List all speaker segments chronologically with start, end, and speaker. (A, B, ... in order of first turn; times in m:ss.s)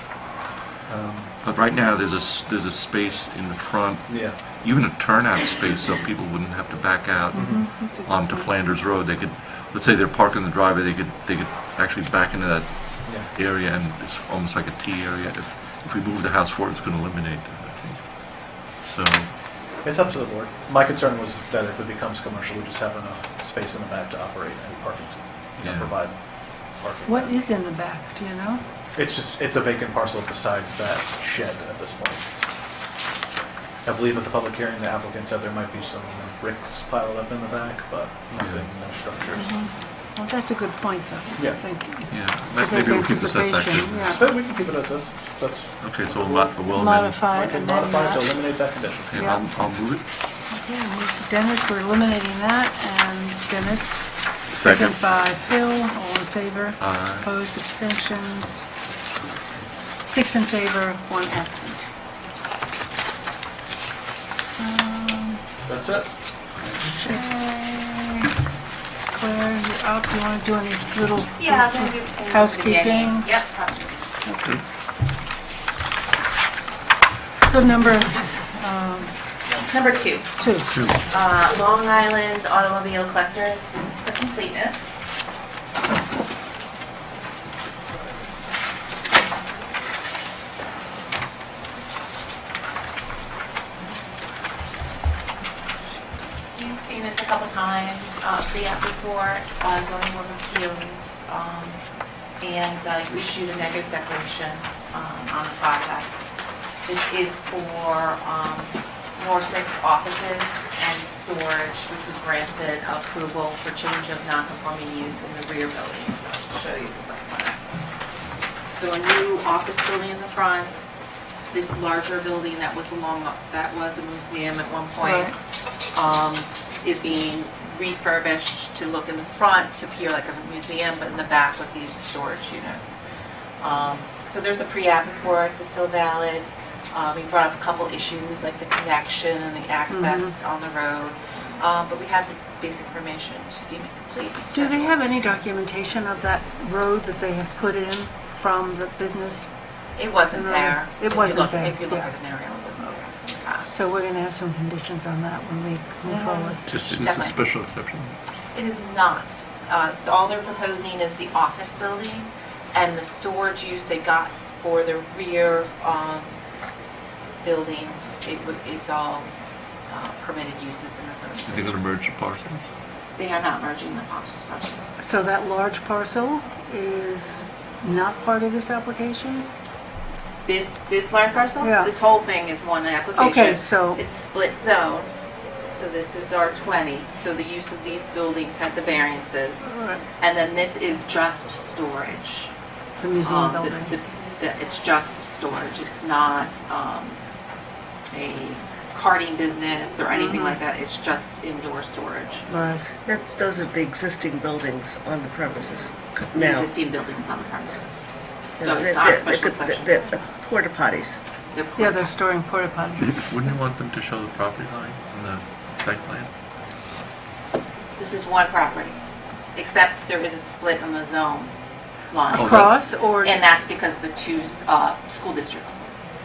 0:00.9-0:01.3 A
0:01.4-0:19.3 B
0:04.1-0:04.4 A
0:07.3-0:08.5 C
0:07.4-0:07.6 A
0:19.8-0:27.4 A
0:25.6-0:25.9 B
0:27.1-0:28.6 C
0:29.0-0:32.3 A
0:33.8-0:39.6 A
0:38.4-0:38.7 B
0:39.6-0:44.2 C
0:41.4-0:41.6 A
0:42.1-0:44.2 B
0:44.2-0:46.6 A
0:45.8-0:47.2 B
0:46.6-0:48.3 C
0:47.3-0:49.2 A
0:49.1-0:50.0 B
0:49.2-0:49.5 C
0:50.5-0:58.6 C
0:56.8-0:57.3 B
1:00.0-1:01.9 C
1:04.6-1:05.4 C
1:05.7-1:06.1 A
1:06.9-1:08.3 C
1:09.1-1:13.3 C
1:11.4-1:14.1 D
1:14.3-1:14.6 C
1:17.4-1:19.1 C
1:19.6-1:20.3 D
1:20.4-1:20.8 C
1:20.7-1:21.0 B
1:21.1-1:24.8 D
1:36.5-1:41.8 D
1:42.4-1:46.2 D
1:46.9-1:57.6 D
1:58.7-2:13.0 D
2:05.0-2:05.3 C
2:13.6-2:24.9 D
2:19.9-2:20.4 C
2:24.5-2:29.5 C
2:30.0-2:34.0 D
2:30.3-2:32.2 C
2:33.7-2:36.6 C
2:36.1-2:37.4 D
2:36.7-2:38.1 B
2:38.5-2:46.3 D
2:47.4-2:49.3 D
2:49.9-2:51.9 D
2:51.5-2:52.7 B
2:53.2-2:54.9 D
2:55.0-2:59.5 C
3:00.4-3:12.5 D
3:01.6-3:01.9 C
3:03.2-3:04.0 C
3:09.7-3:10.0 C
3:13.0-3:14.0 C
3:13.2-3:17.2 D
3:18.1-3:22.5 D
3:20.1-3:20.6 C
3:22.5-3:22.8 C
3:23.0-3:26.7 E
3:26.3-3:28.0 D
3:28.6-3:29.9 D
3:28.6-3:31.2 E
3:31.5-3:32.3 D
3:31.8-3:33.5 C
3:33.3-3:36.3 B
3:38.0-3:39.0 D
3:39.6-3:41.5 D
3:42.1-3:45.9 D
3:42.3-3:43.4 C
3:42.4-3:42.7 B